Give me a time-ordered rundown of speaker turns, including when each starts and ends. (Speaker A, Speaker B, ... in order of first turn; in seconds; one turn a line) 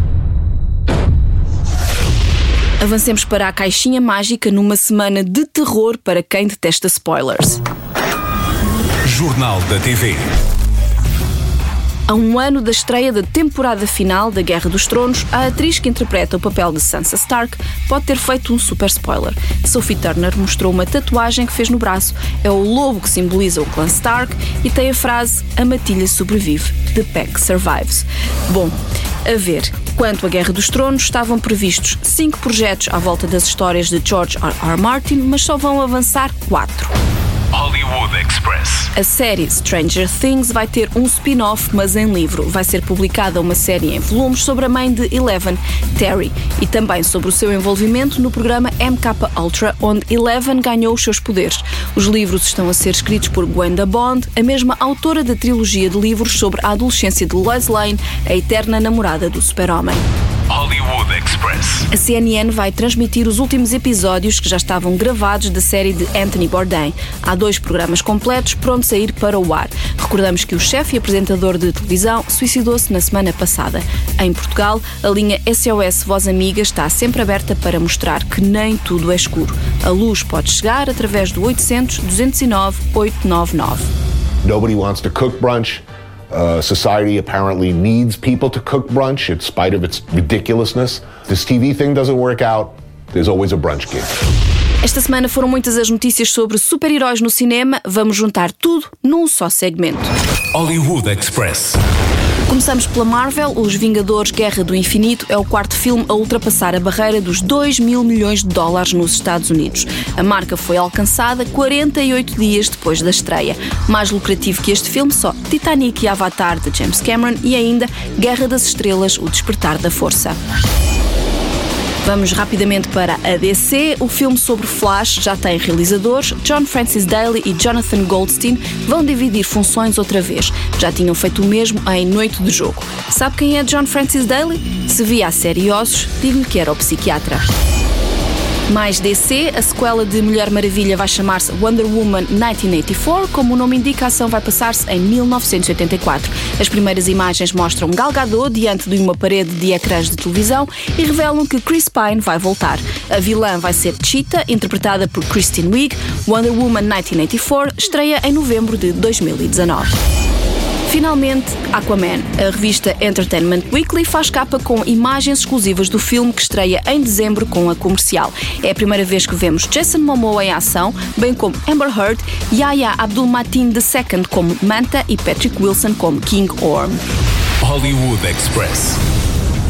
Speaker A: 2.8-7.6
Speaker B: 9.0-10.2
Speaker A: 12.1-36.9
Speaker B: 37.5-38.9
Speaker A: 38.9-60.0
Speaker B: 60.5-61.9
Speaker A: 61.9-83.9
Speaker C: 84.4-94.1
Speaker A: 94.8-100.1
Speaker B: 100.5-101.8
Speaker A: 102.5-120.4
Speaker A: 122.0-137.4
Speaker A: 138.7-159.9
Speaker A: 160.8-177.0
Speaker B: 177.6-179.0